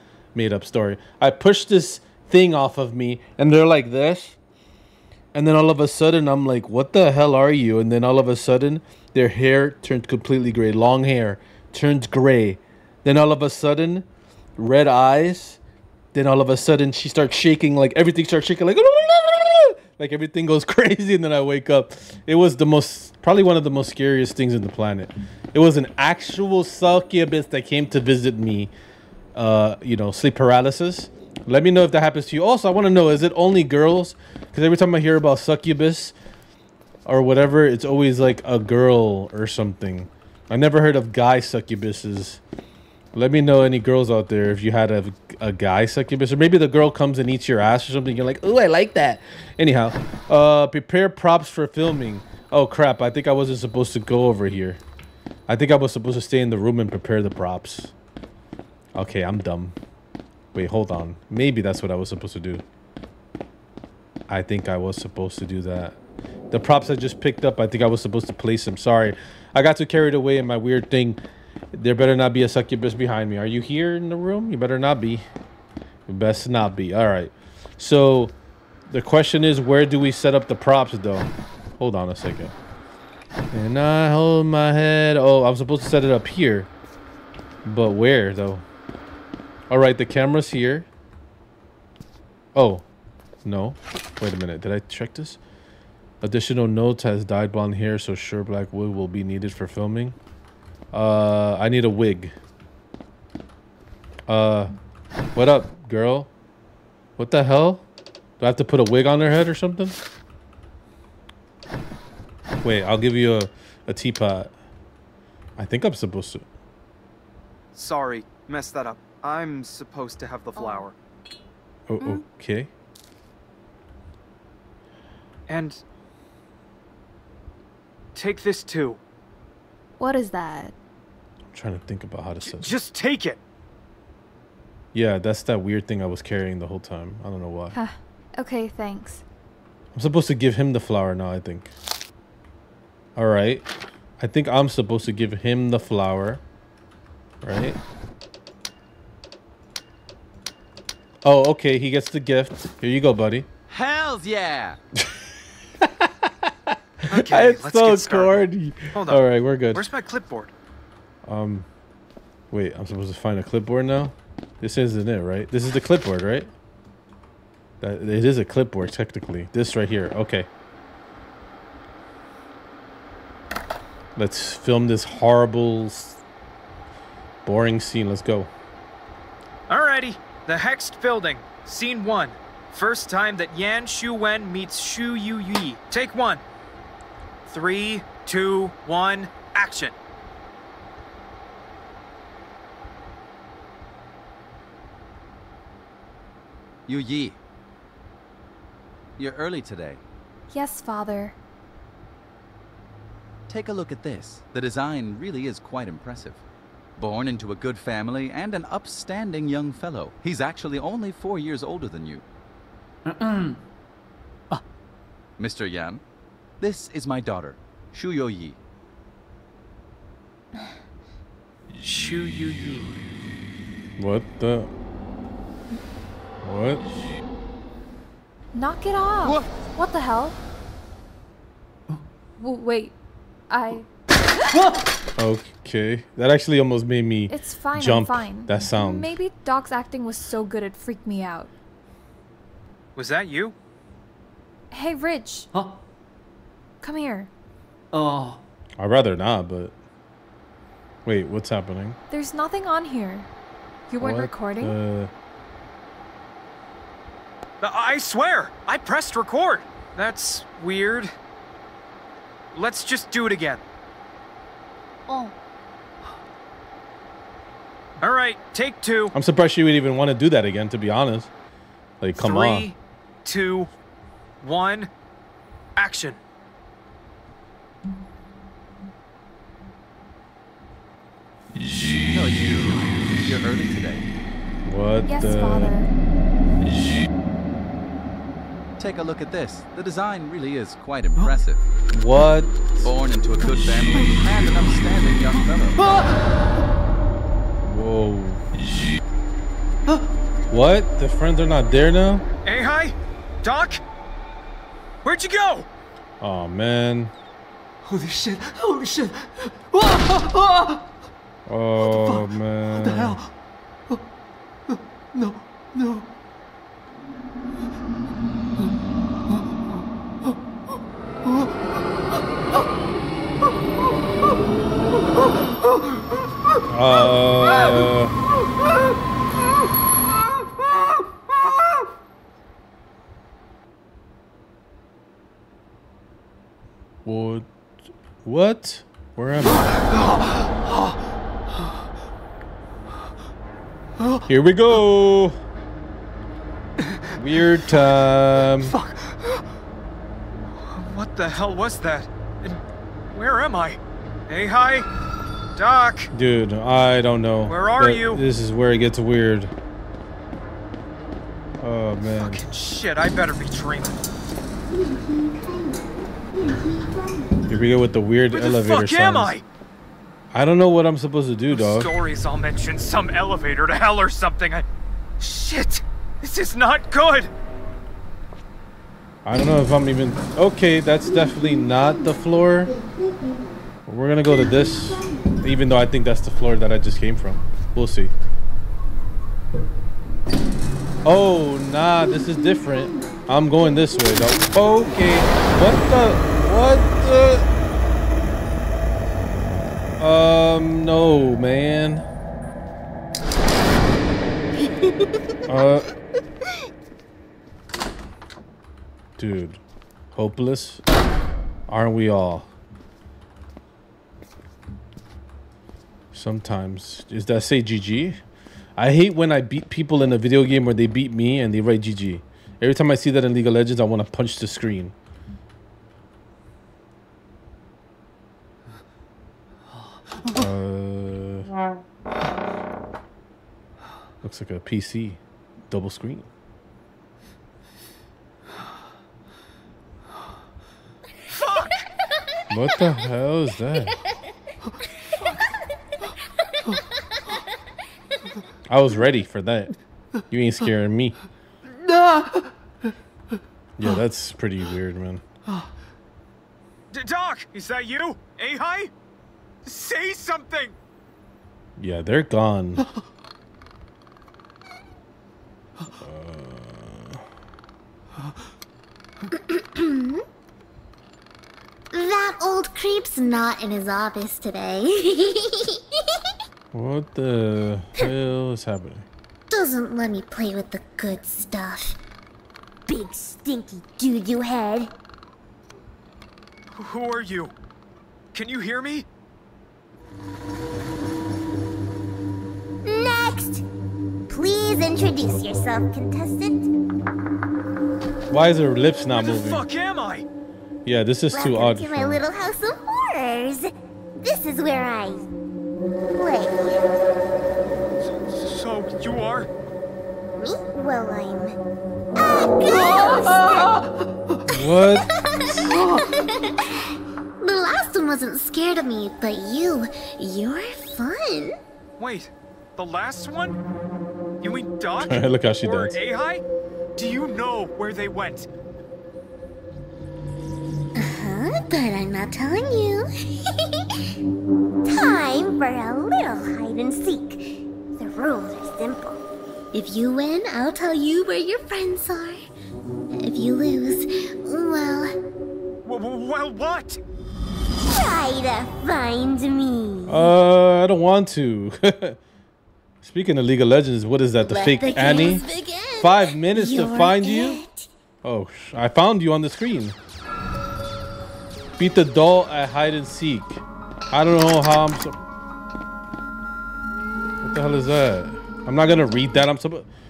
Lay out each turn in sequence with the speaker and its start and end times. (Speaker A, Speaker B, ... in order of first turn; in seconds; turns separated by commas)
Speaker A: 0.3-4.4, Speaker A: 5.3-15.6, Speaker A: 16.1-28.7, Speaker A: 29.4-36.1, Speaker A: 37.1-42.4, Speaker A: 43.1-54.8, Speaker A: 55.5-57.9, Speaker A: 58.9-59.8, Speaker A: 60.5-62.6, Speaker A: 64.3-66.0, Speaker A: 66.5-71.2, Speaker A: 71.7-75.3, Speaker A: 76.1-78.3, Speaker A: 78.9-82.5, Speaker A: 83.5-86.7, Speaker A: 87.6-88.6, Speaker A: 89.7-90.9, Speaker A: 92.5-92.8, Speaker A: 93.4-95.4, Speaker A: 96.2-100.2, Speaker A: 100.9-102.3, Speaker A: 104.3-104.7, Speaker A: 105.3-106.3, Speaker A: 107.2-107.8, Speaker A: 108.4-110.0, Speaker A: 112.6-114.5, Speaker A: 115.6-116.5, Speaker B: 117.8-120.9, Speaker A: 121.9-122.7, Speaker B: 125.5-125.8, Speaker B: 128.1-129.0, Speaker C: 130.0-130.8, Speaker A: 131.5-132.7, Speaker B: 132.4-133.4, Speaker A: 134.9-137.8, Speaker C: 137.7-139.2, Speaker A: 139.9-141.7, Speaker A: 143.2-143.7, Speaker A: 144.2-146.4, Speaker A: 147.4-147.8, Speaker A: 151.2-153.5, Speaker D: 153.7-154.8, Speaker A: 155.8-159.9, Speaker B: 157.1-158.4, Speaker B: 158.9-160.5, Speaker A: 161.3-161.7, Speaker A: 162.5-166.5, Speaker A: 167.8-170.5, Speaker A: 174.2-176.2, Speaker A: 177.4-178.5, Speaker B: 179.7-186.4, Speaker B: 187.5-190.0, Speaker D: 196.9-197.4, Speaker D: 199.2-200.0, Speaker C: 200.5-201.4, Speaker D: 203.5-206.4, Speaker D: 207.0-212.2, Speaker E: 213.1-213.6, Speaker D: 215.4-216.0, Speaker D: 216.6-218.6, Speaker B: 221.8-223.0, Speaker A: 224.0-224.7, Speaker A: 226.4-226.9, Speaker C: 228.5-230.4, Speaker C: 232.4-233.0, Speaker C: 233.5-233.9, Speaker A: 235.2-239.1, Speaker C: 237.3-241.5, Speaker B: 243.0-243.6, Speaker C: 244.7-245.5, Speaker E: 245.5-245.8, Speaker C: 246.8-247.3, Speaker E: 247.9-248.4, Speaker A: 248.8-249.7, Speaker A: 251.1-252.0, Speaker C: 252.1-253.3, Speaker C: 253.9-254.8, Speaker A: 254.0-255.1, Speaker B: 257.6-261.1, Speaker B: 262.5-263.6, Speaker B: 268.0-269.1, Speaker A: 269.1-271.3, Speaker A: 272.0-272.7, Speaker B: 272.1-273.7, Speaker B: 274.4-274.9, Speaker B: 275.8-276.2, Speaker D: 282.1-284.1, Speaker A: 284.6-285.8, Speaker C: 285.1-285.9, Speaker D: 288.8-291.6, Speaker A: 291.9-292.9, Speaker D: 292.8-295.8, Speaker E: 295.8-296.2, Speaker A: 297.6-298.4, Speaker A: 300.5-302.2, Speaker B: 302.4-303.8, Speaker B: 305.0-305.7, Speaker A: 306.2-307.1, Speaker E: 307.9-310.9, Speaker A: 311.5-313.2, Speaker E: 311.9-313.3, Speaker E: 314.7-316.1, Speaker A: 326.7-328.1, Speaker E: 327.5-327.9, Speaker A: 337.1-337.5, Speaker A: 338.2-339.9, Speaker E: 339.9-340.9, Speaker E: 344.0-344.2, Speaker A: 344.3-345.4, Speaker A: 347.1-348.8, Speaker E: 348.6-349.4, Speaker B: 350.7-352.6, Speaker B: 353.1-354.9, Speaker B: 355.6-356.1, Speaker A: 356.1-359.5, Speaker B: 357.5-358.2, Speaker A: 361.6-362.4, Speaker B: 362.1-364.0, Speaker F: 364.7-367.3, Speaker A: 367.5-369.4, Speaker B: 368.3-369.4, Speaker A: 370.3-371.9, Speaker B: 371.5-374.6, Speaker B: 375.2-377.3, Speaker A: 379.2-382.7, Speaker A: 383.9-388.1, Speaker A: 391.0-397.5, Speaker A: 400.0-402.1, Speaker A: 405.5-405.9, Speaker A: 409.2-409.6, Speaker A: 410.1-410.8, Speaker A: 411.7-412.5, Speaker A: 416.1-418.2, Speaker A: 418.8-424.9, Speaker A: 430.4-431.5, Speaker A: 434.2-436.3, Speaker B: 441.3-441.8, Speaker A: 442.5-444.0, Speaker A: 448.7-449.7, Speaker A: 450.3-451.2, Speaker E: 451.8-452.5, Speaker A: 453.8-455.2, Speaker B: 456.9-458.9, Speaker B: 459.6-460.8, Speaker A: 461.8-462.8, Speaker A: 466.0-467.2, Speaker F: 469.3-470.2, Speaker F: 471.9-475.8, Speaker A: 476.7-479.1, Speaker F: 479.5-482.0, Speaker F: 482.9-484.9, Speaker B: 486.8-487.5, Speaker B: 488.3-489.1, Speaker F: 492.9-493.6, Speaker F: 494.3-496.7, Speaker A: 498.3-499.6, Speaker B: 499.2-500.3, Speaker A: 500.9-502.2, Speaker F: 501.3-503.7, Speaker F: 504.2-505.3, Speaker F: 506.1-506.9, Speaker B: 508.2-509.5, Speaker F: 510.4-511.6, Speaker F: 512.1-513.8, Speaker E: 512.7-514.4, Speaker A: 514.5-515.1, Speaker F: 515.3-516.7, Speaker E: 515.7-516.0, Speaker F: 517.4-521.6, Speaker B: 522.0-523.6, Speaker B: 524.4-526.4, Speaker A: 525.0-526.0, Speaker B: 527.0-528.5, Speaker F: 531.0-533.7, Speaker F: 534.9-539.2, Speaker F: 539.7-542.5, Speaker F: 543.2-545.1, Speaker B: 545.9-547.0, Speaker F: 547.9-550.3, Speaker A: 550.1-552.2, Speaker A: 553.0-555.4, Speaker F: 554.4-557.9, Speaker A: 556.0-557.6, Speaker A: 558.2-560.0, Speaker A: 561.8-565.2, Speaker A: 567.4-569.9